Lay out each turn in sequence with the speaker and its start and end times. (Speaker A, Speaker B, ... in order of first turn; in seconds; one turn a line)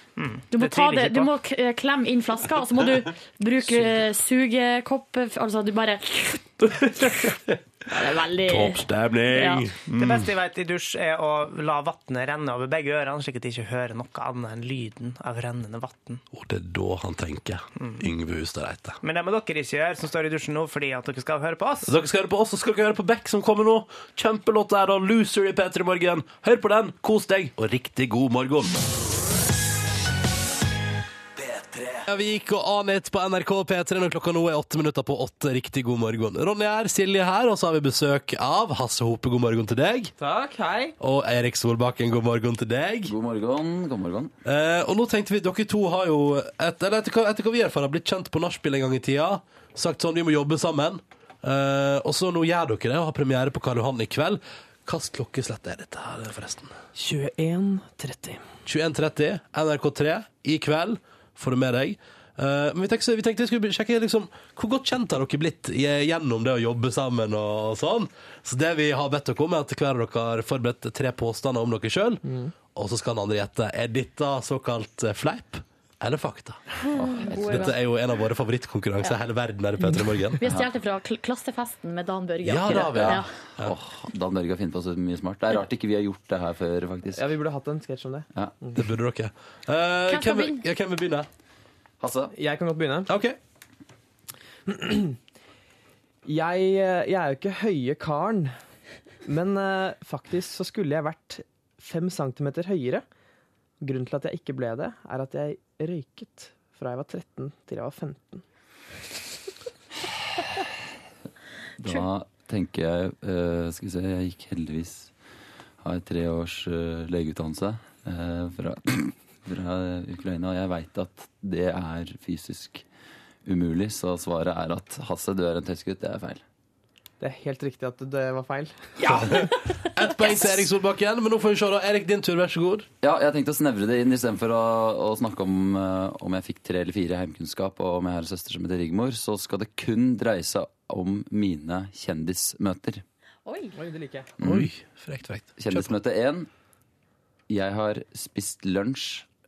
Speaker A: 0.2-1.3
Speaker B: 0.5-7.0
Speaker C: 6.6-7.6
Speaker B: 7.9-9.7
Speaker C: 8.4-10.3
Speaker A: 10.0-16.2
Speaker C: 16.3-19.0
Speaker A: 17.8-18.1
Speaker A: 19.0-21.9
Speaker C: 21.9-28.7
Speaker C: 32.0-40.1
Speaker D: 40.2-40.9
Speaker C: 41.0-43.1
Speaker E: 43.0-44.3
Speaker C: 44.5-56.7
Speaker D: 56.9-58.4
Speaker C: 58.6-76.8
Speaker D: 72.2-72.5
Speaker B: 76.9-77.8
Speaker E: 76.9-77.7
Speaker C: 77.4-80.4
Speaker B: 80.4-83.3
Speaker C: 82.4-83.7
Speaker E: 82.8-87.3
Speaker D: 87.1-88.8
Speaker C: 88.8-91.3
Speaker B: 90.1-90.6
Speaker E: 92.0-92.3
Speaker D: 92.3-93.1
Speaker C: 93.1-93.4
Speaker D: 94.7-95.2
Speaker D: 96.2-98.5
Speaker D: 99.2-103.0
Speaker D: 103.8-108.4
Speaker E: 111.8-115.1
Speaker E: 115.8-122.9
Speaker E: 123.4-126.4
Speaker D: 127.2-128.9
Speaker C: 129.0-132.9
Speaker E: 133.0-143.0
Speaker B: 143.4-143.8
Speaker D: 143.7-144.3
Speaker E: 144.4-144.7
Speaker C: 144.4-145.9
Speaker E: 145.6-146.5
Speaker E: 147.5-149.3